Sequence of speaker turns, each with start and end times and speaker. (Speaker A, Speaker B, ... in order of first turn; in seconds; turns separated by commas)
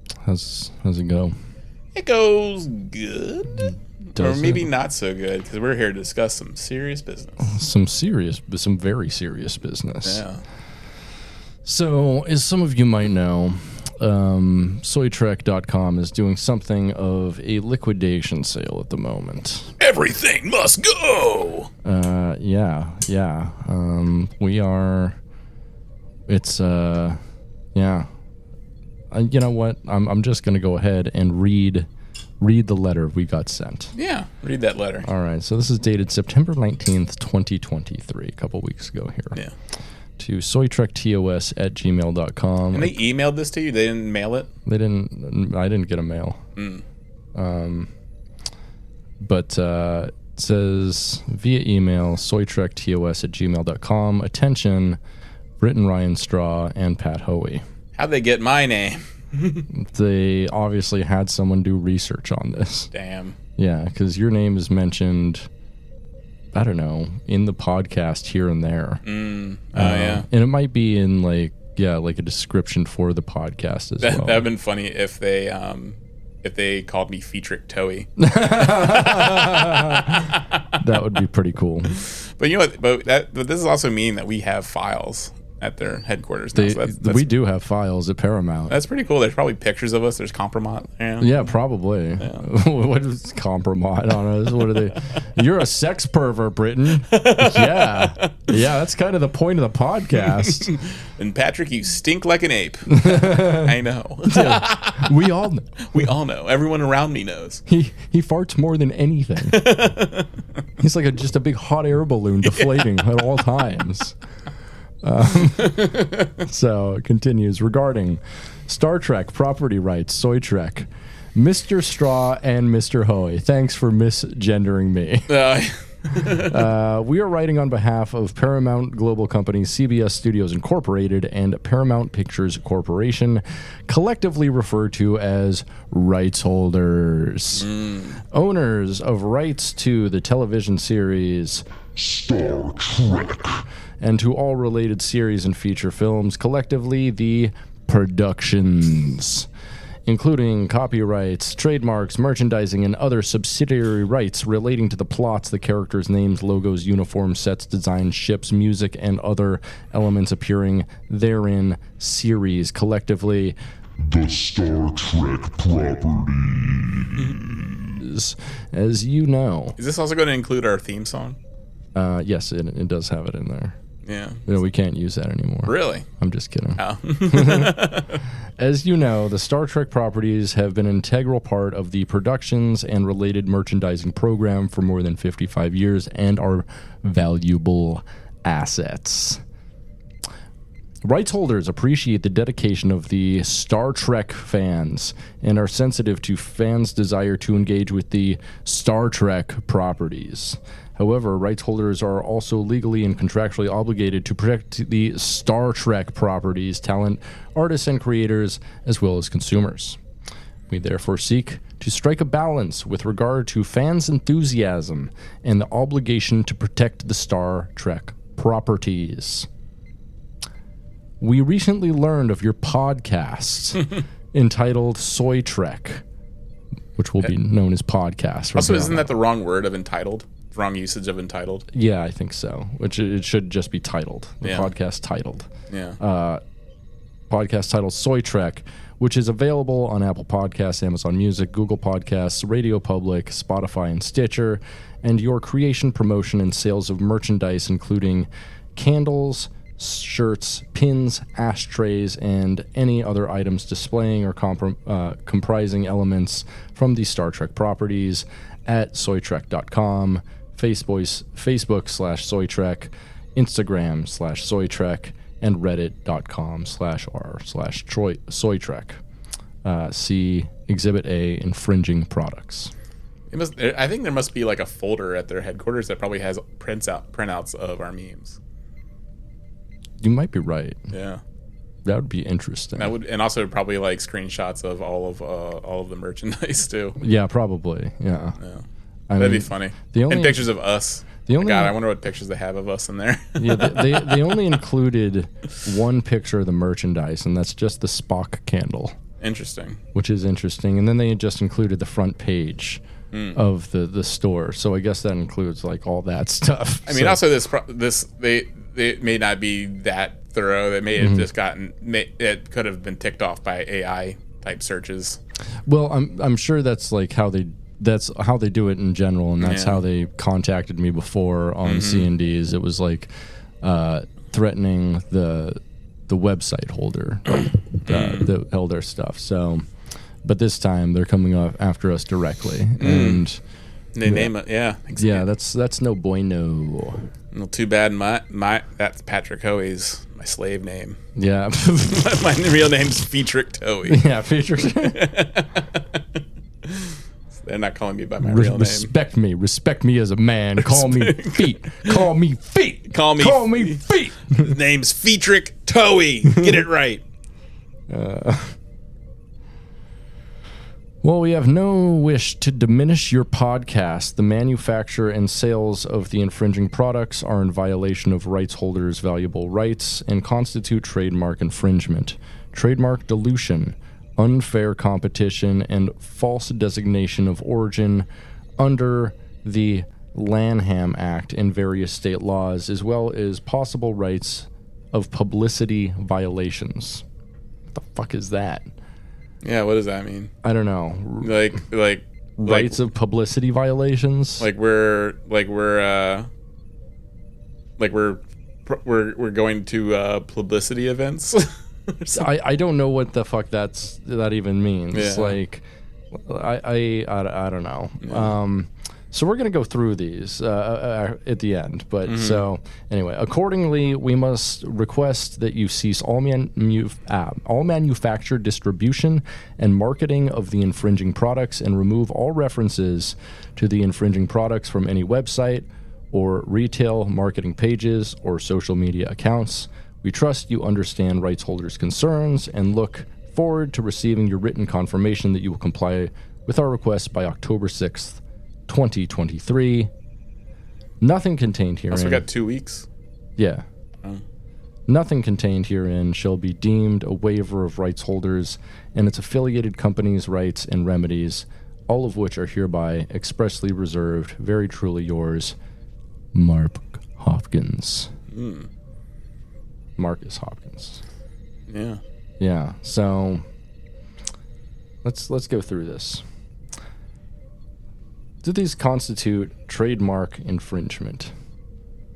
Speaker A: 0.2-1.3, Speaker B: 1.9-7.5, Speaker A: 4.2-4.7, Speaker A: 7.4-10.2, Speaker B: 10.0-10.4, Speaker A: 11.6-19.7, Speaker B: 19.8-21.7, Speaker A: 21.8-25.2, Speaker A: 26.3-27.2, Speaker A: 27.7-28.1, Speaker A: 29.1-31.9, Speaker A: 32.4-33.9, Speaker B: 34.0-35.1, Speaker A: 35.0-39.4, Speaker A: 40.2-43.0, Speaker B: 42.7-44.5, Speaker A: 44.6-46.4, Speaker B: 46.5-46.8, Speaker A: 47.3-47.9, Speaker A: 49.2-55.0, Speaker A: 55.6-57.6, Speaker B: 57.9-59.7, Speaker A: 59.7-62.9, Speaker B: 62.9-63.4, Speaker A: 63.6-65.5, Speaker A: 66.5-69.0, Speaker B: 69.0-70.3, Speaker A: 69.7-74.5, Speaker B: 74.0-80.8, Speaker A: 78.2-81.9, Speaker B: 82.0-87.3, Speaker A: 86.5-88.8, Speaker B: 88.7-91.5, Speaker A: 91.2-100.7, Speaker B: 92.2-92.4, Speaker B: 97.0-98.5, Speaker B: 100.2-105.2, Speaker A: 102.9-105.7, Speaker B: 105.8-107.6, Speaker A: 107.7-109.8, Speaker B: 109.4-110.3, Speaker A: 110.8-114.2, Speaker B: 112.5-112.8, Speaker A: 115.0-125.3, Speaker B: 115.6-116.3, Speaker B: 125.3-126.6, Speaker A: 126.1-137.7, Speaker B: 137.6-138.2, Speaker A: 138.2-141.7, Speaker C: 141.9-143.6, Speaker A: 144.0-149.5, Speaker A: 150.1-163.6, Speaker C: 164.0-167.9, Speaker B: 167.1-167.4, Speaker A: 168.0-169.8, Speaker B: 169.8-171.4, Speaker A: 171.9-173.8, Speaker B: 174.1-174.4, Speaker A: 174.4-178.0, Speaker B: 175.7-176.1, Speaker B: 176.8-178.2, Speaker A: 178.6-189.4, Speaker A: 191.0-210.0, Speaker A: 210.7-219.5, Speaker A: 221.2-226.0, Speaker A: 226.9-229.1, Speaker B: 228.5-231.6, Speaker A: 231.7-236.4, Speaker B: 234.4-234.7, Speaker B: 235.7-236.0, Speaker A: 237.3-269.0, Speaker A: 269.6-272.7, Speaker B: 273.3-278.4, Speaker A: 280.0-280.8, Speaker B: 280.9-281.2, Speaker A: 281.8-282.9, Speaker B: 282.8-287.0, Speaker A: 287.0-288.4, Speaker B: 288.4-288.6, Speaker A: 289.1-290.4, Speaker B: 289.1-294.3, Speaker A: 291.3-291.7, Speaker A: 293.4-298.9, Speaker B: 299.2-299.8, Speaker A: 299.9-302.8, Speaker B: 303.1-303.4, Speaker A: 303.3-307.2, Speaker B: 306.9-315.2, Speaker A: 311.0-311.3, Speaker A: 315.6-329.7, Speaker B: 319.4-319.8, Speaker B: 321.6-322.1, Speaker B: 327.8-328.3, Speaker A: 330.2-333.4, Speaker B: 332.8-333.2, Speaker B: 333.9-335.2, Speaker A: 334.0-334.3, Speaker A: 334.9-337.1, Speaker B: 337.3-341.0, Speaker A: 341.1-342.1, Speaker B: 341.9-344.0, Speaker A: 343.9-345.1, Speaker B: 344.6-346.0, Speaker B: 346.6-348.9, Speaker A: 348.2-354.5, Speaker B: 350.6-352.1, Speaker B: 352.9-357.0, Speaker A: 356.3-356.6, Speaker A: 357.9-358.6, Speaker A: 361.0-378.1, Speaker A: 378.6-387.0, Speaker A: 387.7-388.7, Speaker B: 389.4-390.3, Speaker A: 390.4-391.6, Speaker B: 391.2-392.8, Speaker A: 392.4-394.4, Speaker B: 394.4-396.3, Speaker B: 397.8-402.3, Speaker A: 402.1-439.9, Speaker B: 404.9-405.4, Speaker B: 408.0-408.3, Speaker B: 412.0-412.4, Speaker A: 441.0-442.2, Speaker B: 441.9-442.9, Speaker A: 443.4-443.6, Speaker A: 444.9-455.6, Speaker A: 456.3-458.1, Speaker B: 458.3-458.7, Speaker A: 460.0-461.0, Speaker B: 461.7-462.0, Speaker A: 462.4-463.4, Speaker A: 465.0-466.2, Speaker A: 468.4-471.3